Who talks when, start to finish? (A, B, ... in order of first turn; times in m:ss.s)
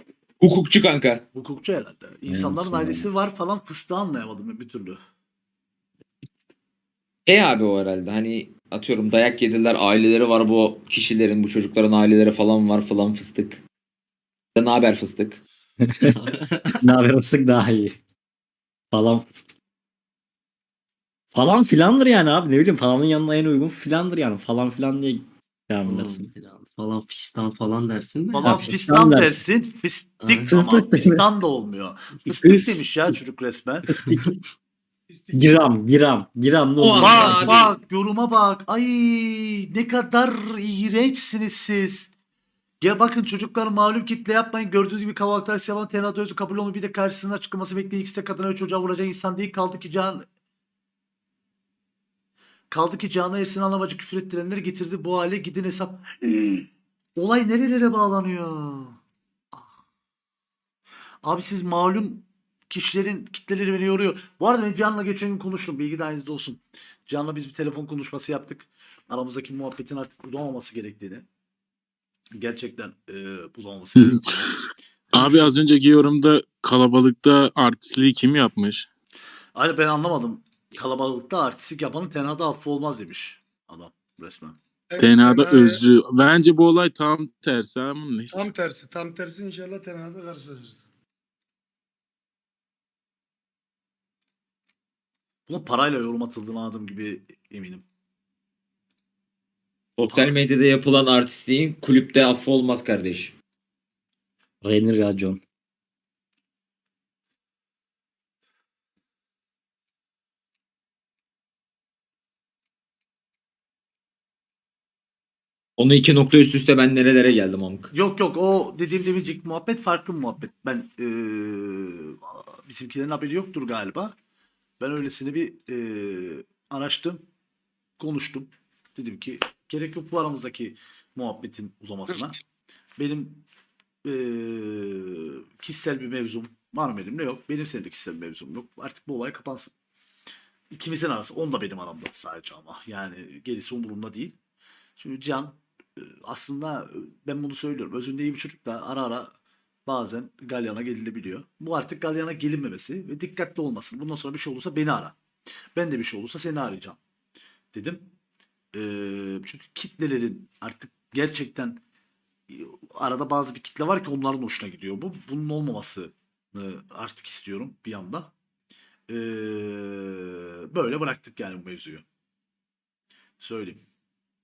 0:00.4-0:01.2 A
0:01.3-0:05.0 B
0:02.3-0:03.1 C
0:07.3-0:13.6 A
0:14.6-0:15.4 A
0:15.8-0:16.2 C
0:16.8-0:18.0 C
0:18.9-0:19.5 C
0:21.3-0:26.3 C
0:26.1-0:28.3 D
0:28.3-0:33.9 B
0:28.4-0:29.4 C
0:30.5-0:31.2 C
0:33.9-0:34.3 C
0:35.3-0:37.6 C
0:36.8-0:37.7 A
0:37.0-0:42.1 B
0:42.8-0:50.2 B
0:52.7-0:59.0 B
1:01.2-1:11.2 B
1:12.4-1:14.2 B
1:14.0-1:14.5 E
1:15.1-1:15.5 B
1:15.1-1:18.9 E
1:19.6-1:24.6 B
1:25.0-1:25.6 F
1:25.0-1:28.5 E
1:28.4-1:30.8 F
1:35.5-1:37.8 B
1:40.0-1:43.4 A
1:40.1-1:40.4 B
1:44.6-1:45.4 C
1:55.8-1:57.9 A
1:57.9-2:04.1 B
2:04.8-2:07.2 B
2:08.0-2:12.4 B
2:13.0-2:13.5 B
2:14.0-2:19.7 B
2:20.7-2:24.4 B
2:25.0-2:29.3 B
2:29.9-2:35.2 B
2:35.8-2:37.0 B
2:37.7-2:38.1 B
2:38.7-2:41.8 B
2:42.5-2:48.4 B
2:49.1-2:52.0 B
2:53.4-2:53.8 B